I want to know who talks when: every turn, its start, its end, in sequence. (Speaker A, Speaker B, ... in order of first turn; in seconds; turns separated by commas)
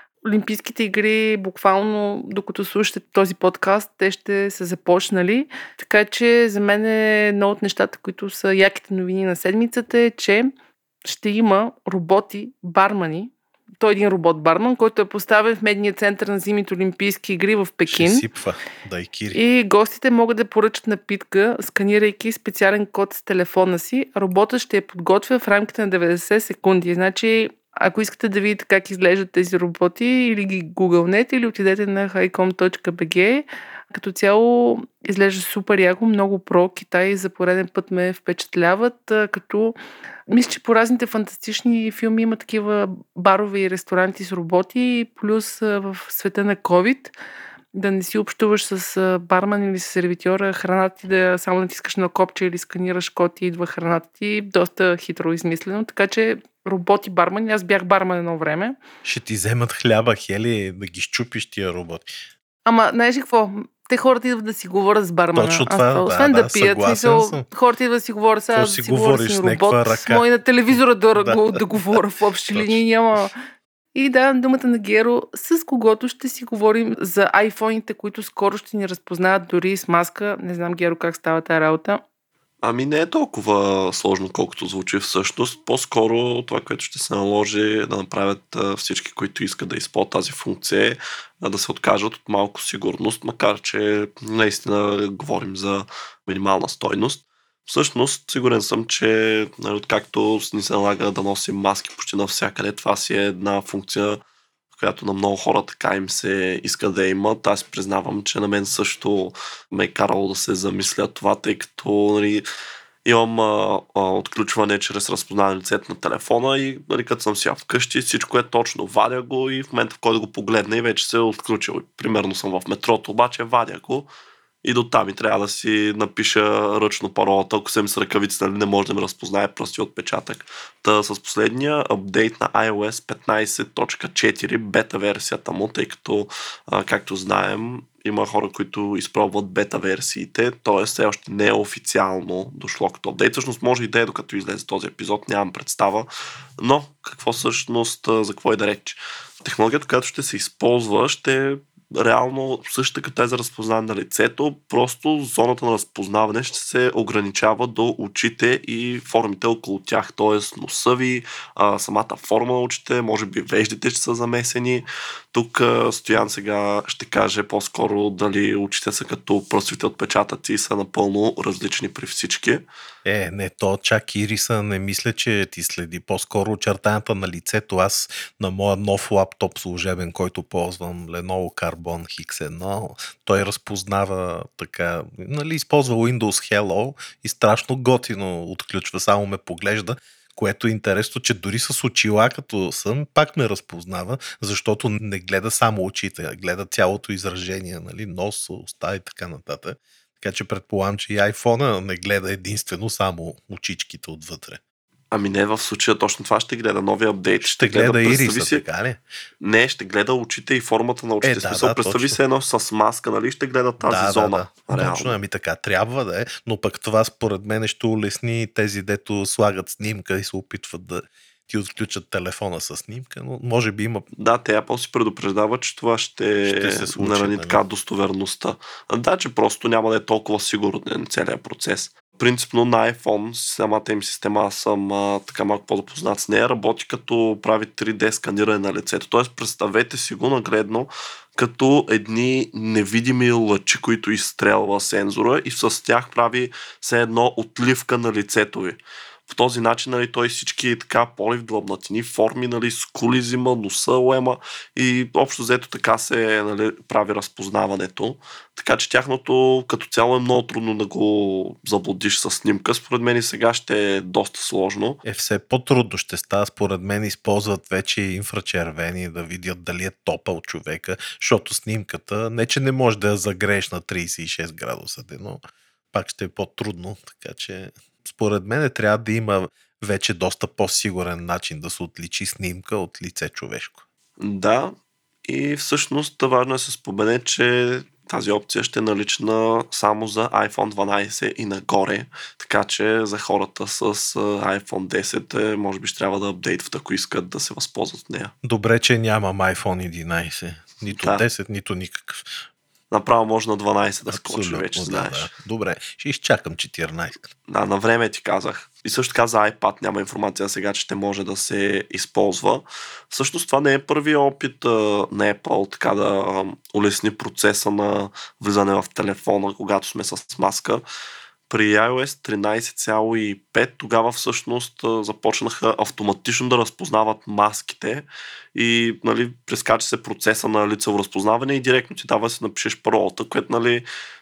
Speaker A: 0.2-10.5, Speaker A: 11.1-18.2, Speaker B: 17.9-19.4, Speaker A: 19.3-39.8, Speaker A: 40.3-47.1, Speaker A: 47.7-58.8, Speaker B: 59.0-62.1, Speaker A: 62.6-73.3, Speaker B: 65.3-67.5, Speaker B: 68.5-70.3, Speaker B: 71.2-72.0, Speaker B: 72.5-72.8, Speaker A: 74.0-82.0, Speaker C: 82.6-104.2, Speaker C: 104.8-112.5, Speaker C: 113.0-124.1, Speaker C: 124.6-172.6, Speaker B: 173.1-204.6, Speaker C: 205.1-208.6, Speaker B: 207.4-209.0, Speaker C: 209.4-215.2, Speaker B: 211.2-212.2, Speaker B: 213.8-224.1, Speaker C: 224.2-265.0, Speaker B: 226.4-227.6, Speaker B: 265.1-275.4, Speaker B: 275.9-283.8, Speaker C: 284.2-284.8, Speaker C: 285.3-298.3, Speaker B: 298.4-302.4, Speaker C: 300.9-301.2, Speaker C: 302.9-305.3, Speaker B: 304.1-307.2, Speaker C: 307.5-320.8, Speaker C: 321.5-333.9